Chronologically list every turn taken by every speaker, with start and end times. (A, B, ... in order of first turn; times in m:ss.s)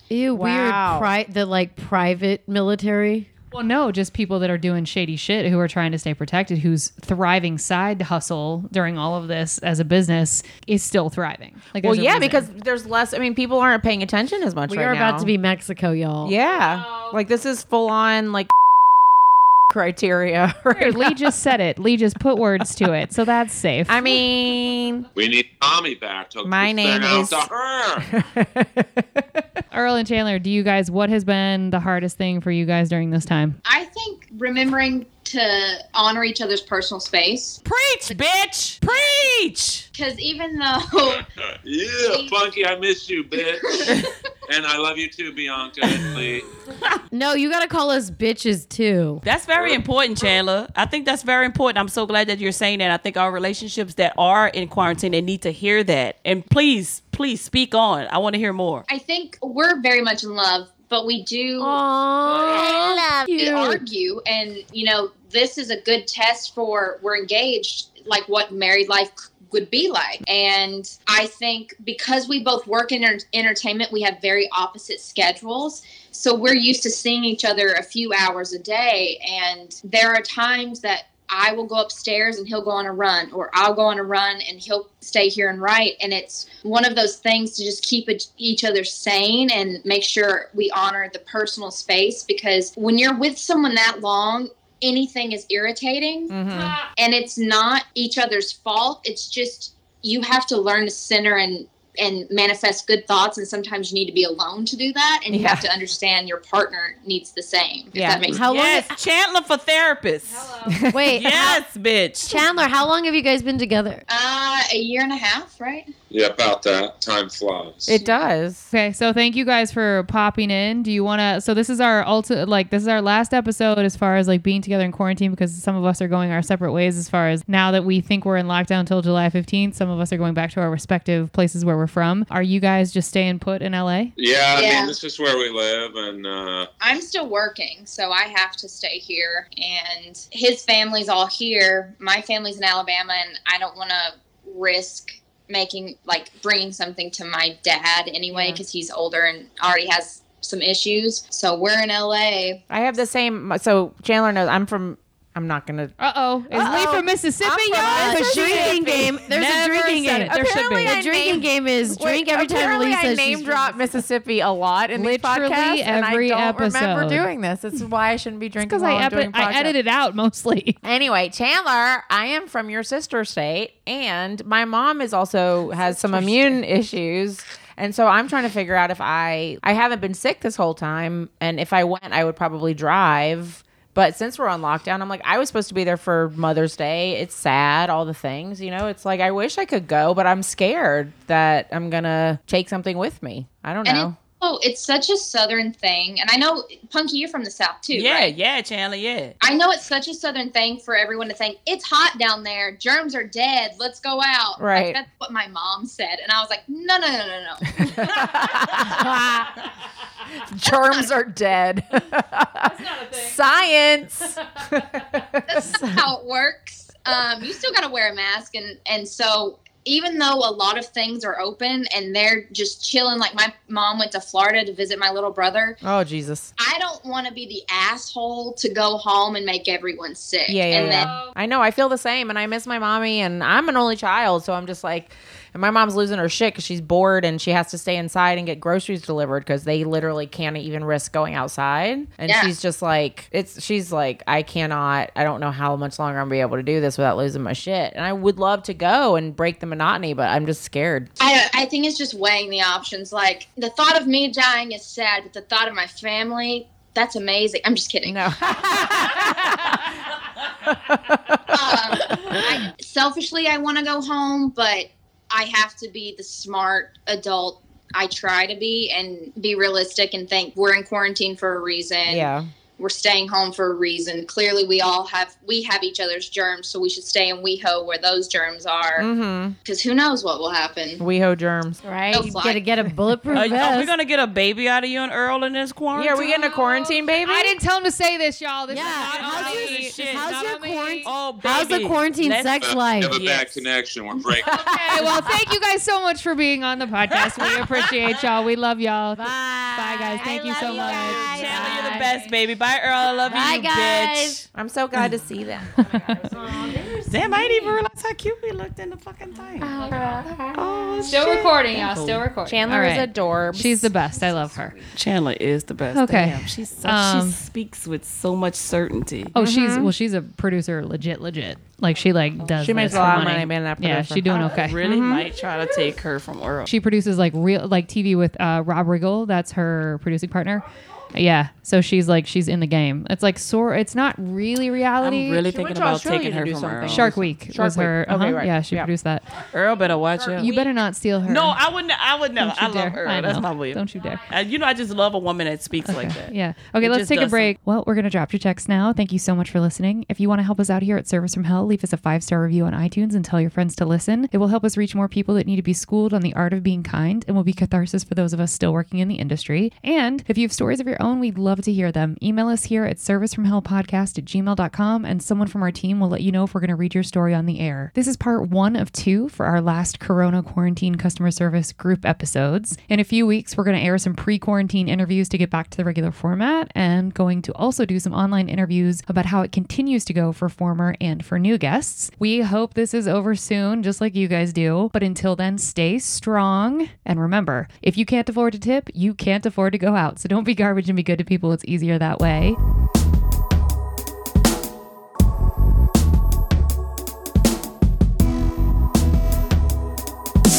0:00.1-0:03.3 A
0:00.3-0:01.1 B
0:03.5-0:12.5 C
0:11.8-0:15.3 B
0:14.7-0:16.4 A
0:16.2-0:18.5 B
0:19.7-0:21.3 B
0:20.7-0:24.2 C
0:23.9-0:25.1 B
0:25.2-0:28.1 D
0:26.4-0:27.5 B
0:28.1-0:29.2 B
0:29.7-0:33.6 C
0:33.6-0:38.2 E
0:37.6-0:39.8 F
0:38.8-0:39.2 E
0:39.9-0:41.2 E
0:41.2-0:46.5 D
0:42.0-0:42.4 E
0:43.6-0:44.0 E
0:47.1-0:49.2 A
0:49.2-0:58.8 F
0:49.6-0:49.8 D
0:58.9-1:01.8 E
1:01.6-1:03.8 A
1:02.3-1:36.4 E
1:36.3-1:36.8 B
1:37.0-1:48.5 E
1:45.3-1:45.6 B
1:47.9-1:48.4 B
1:48.3-1:49.0 A
1:48.4-1:52.4 F
1:50.2-1:50.8 C
1:50.7-1:51.1 B
1:50.9-1:51.6 A
1:52.3-1:54.0 A
1:54.1-1:55.9 E
1:56.1-1:58.0 D
1:57.9-1:58.7 B
1:58.7-2:14.1 C
2:14.2-2:16.7 D
2:14.5-2:15.0 E
2:16.8-2:32.6 E
2:32.7-2:36.0 B
2:36.0-2:41.0 C
2:36.5-2:39.4 B
2:37.7-2:43.9 A
2:40.1-2:49.8 B
2:45.0-2:47.3 C
2:48.6-2:50.8 C
2:50.8-3:14.2 B
2:55.9-2:56.6 C
3:13.8-3:18.3 E
3:17.9-3:19.3 F
3:19.4-3:28.4 E
3:24.6-3:25.0 B
3:27.8-3:29.5 B
3:30.4-3:35.9 B
3:30.7-3:31.1 E
3:32.6-3:33.4 C
3:35.5-3:45.8 E
3:45.8-3:46.5 B
3:46.6-3:51.2 E
3:50.5-4:11.1 B
3:50.7-3:51.3 C
4:02.3-4:02.5 E
4:11.2-4:18.8 E
4:18.0-4:19.9 B
4:20.6-4:22.4 B
4:21.5-4:39.1 E
4:32.1-4:32.5 B
4:39.0-4:39.6 B
4:39.6-4:41.0 E
4:41.0-4:41.8 B
4:41.8-4:43.9 A
4:42.1-4:42.7 E
4:43.3-4:46.5 F
4:45.9-4:47.6 B
4:47.2-4:51.1 C
4:48.7-4:53.2 A
4:48.8-4:50.5 F
4:51.0-4:53.6 F
4:52.6-4:55.0 D
4:54.5-4:54.8 B
4:54.5-5:02.2 C
4:55.0-4:55.3 F
4:57.1-4:58.0 F
4:59.2-5:02.2 A
5:00.5-5:04.4 F
5:03.2-5:04.4 A
5:04.5-5:07.0 B
5:05.8-5:06.2 C
5:06.2-5:07.8 A
5:07.1-5:09.7 F
5:09.6-5:10.6 A
5:09.8-5:10.6 B
5:10.5-5:12.2 F
5:11.0-5:14.8 C
5:12.5-5:14.0 B
5:15.0-5:19.4 F
5:15.9-5:17.4 C
5:19.4-5:24.8 C
5:19.4-5:19.9 B
5:22.6-5:24.3 B
5:22.7-5:23.4 F
5:24.3-5:26.7 F
5:24.8-5:25.3 B
5:26.7-5:35.4 C
5:35.0-5:37.1 F
5:35.5-5:38.9 B
5:36.9-5:39.3 C
5:39.5-5:40.5 F
5:40.1-5:40.7 B
5:40.4-5:41.6 C
5:41.3-5:47.5 F
5:42.4-5:44.2 C
5:45.9-6:32.6 C